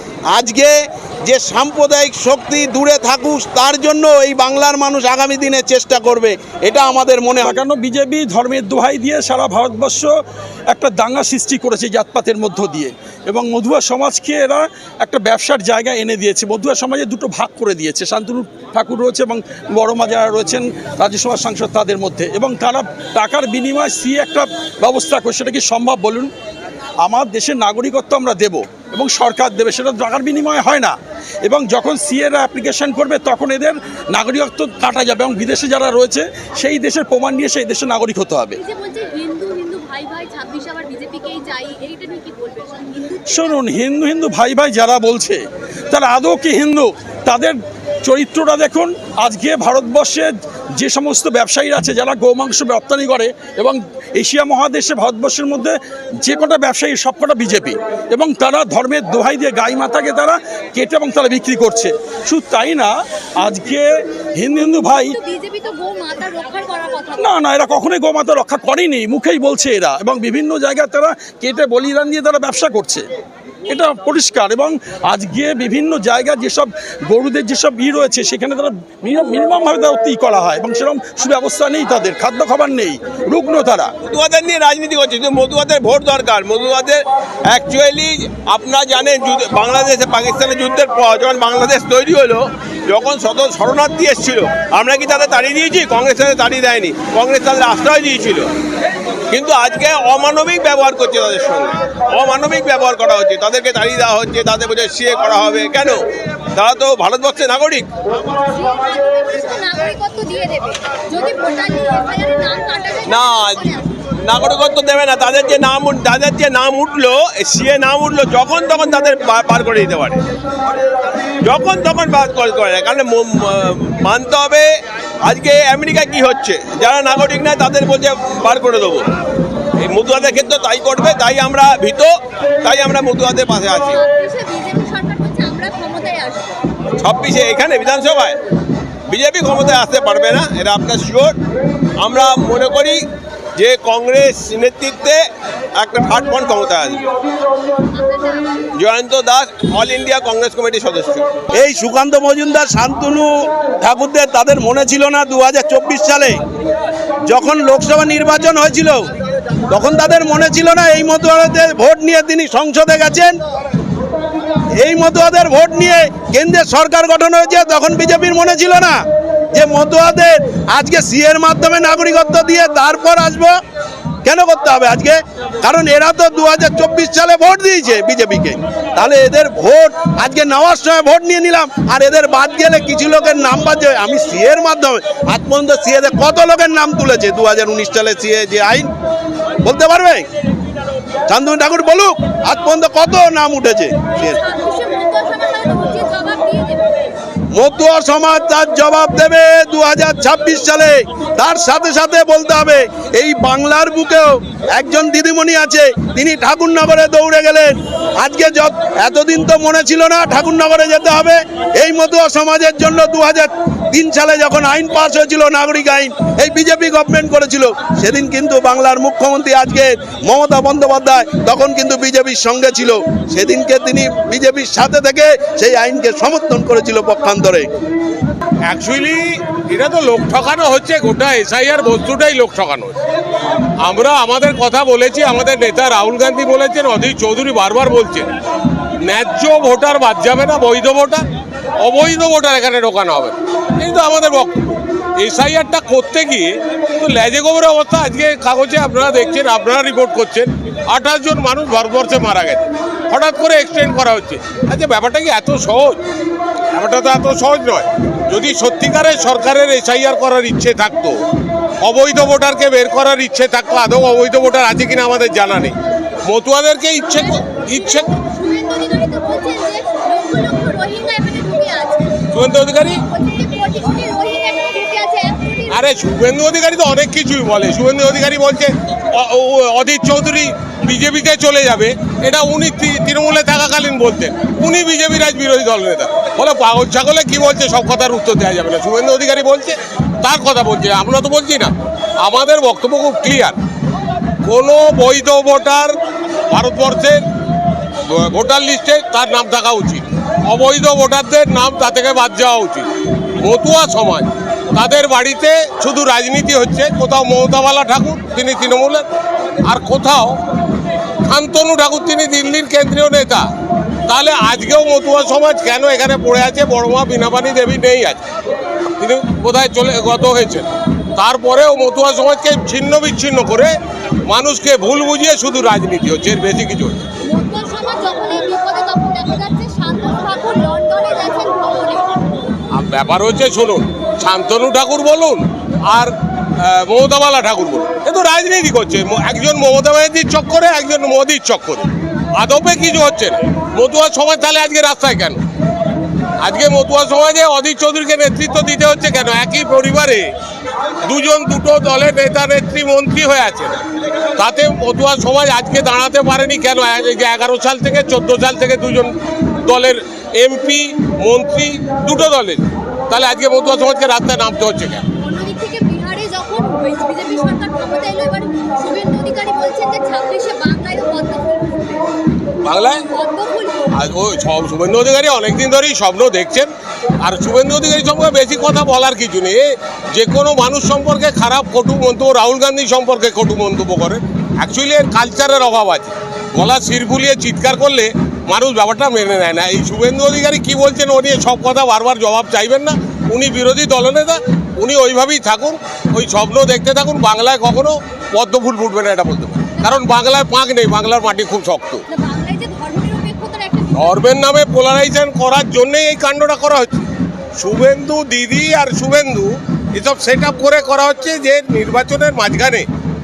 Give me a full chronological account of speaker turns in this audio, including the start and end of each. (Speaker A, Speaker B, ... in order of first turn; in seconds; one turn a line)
Speaker A: 0.3-7.6
Speaker B: 7.4-10.1
Speaker B: 10.7-26.3
Speaker B: 27.0-38.6
Speaker C: 38.5-43.6
Speaker B: 43.3-65.2
Speaker C: 64.9-67.3
Speaker B: 67.2-73.1
Speaker B: 73.7-83.9
Speaker D: 84.1-98.5
Speaker D: 99.3-106.0
Speaker D: 106.5-107.9
Speaker C: 108.3-113.9
Speaker D: 113.1-113.6
Speaker D: 114.2-120.2
Speaker D: 121.4-124.7
Speaker D: 125.2-129.1
Speaker D: 129.8-134.0
Speaker C: 133.8-136.6
Speaker D: 137.0-138.4
Speaker D: 139.1-141.4
Speaker D: 142.0-143.1
Speaker D: 143.6-147.1
Speaker C: 147.8-148.6
Speaker D: 148.7-151.3
Speaker A: 151.5-156.4
Speaker A: 157.3-159.1
Speaker A: 159.7-163.3
Speaker A: 164.8-173.6
Speaker A: 174.2-188.9
Speaker A: 189.6-190.3
Speaker A: 191.3-194.4
Speaker C: 194.2-196.9
Speaker A: 197.5-227.7
Speaker E: 228.7-232.9
Speaker E: 233.8-238.3
Speaker E: 239.0-241.3
Speaker E: 241.8-256.0
Speaker E: 256.7-261.1
Speaker E: 261.8-265.8
Speaker E: 266.2-268.1
Speaker C: 267.1-272.2
Speaker E: 272.3-273.0
Speaker C: 273.0-275.8
Speaker E: 275.7-293.6
Speaker E: 294.4-295.9
Speaker E: 296.5-297.2
Speaker E: 298.1-302.9
Speaker E: 303.4-309.0
Speaker E: 309.6-310.4
Speaker E: 311.2-313.5
Speaker E: 314.1-318.2
Speaker E: 319.0-323.7
Speaker E: 324.2-327.1
Speaker C: 327.2-332.2
Speaker E: 332.7-345.4
Speaker E: 346.4-350.3
Speaker E: 351.0-353.8
Speaker E: 354.4-365.0
Speaker C: 365.2-372.0
Speaker E: 372.6-373.0
Speaker C: 373.1-373.9
Speaker E: 373.9-376.7
Speaker E: 377.2-402.0
Speaker C: 399.8-400.0
Speaker C: 402.1-404.3
Speaker E: 403.9-407.1
Speaker E: 407.6-412.9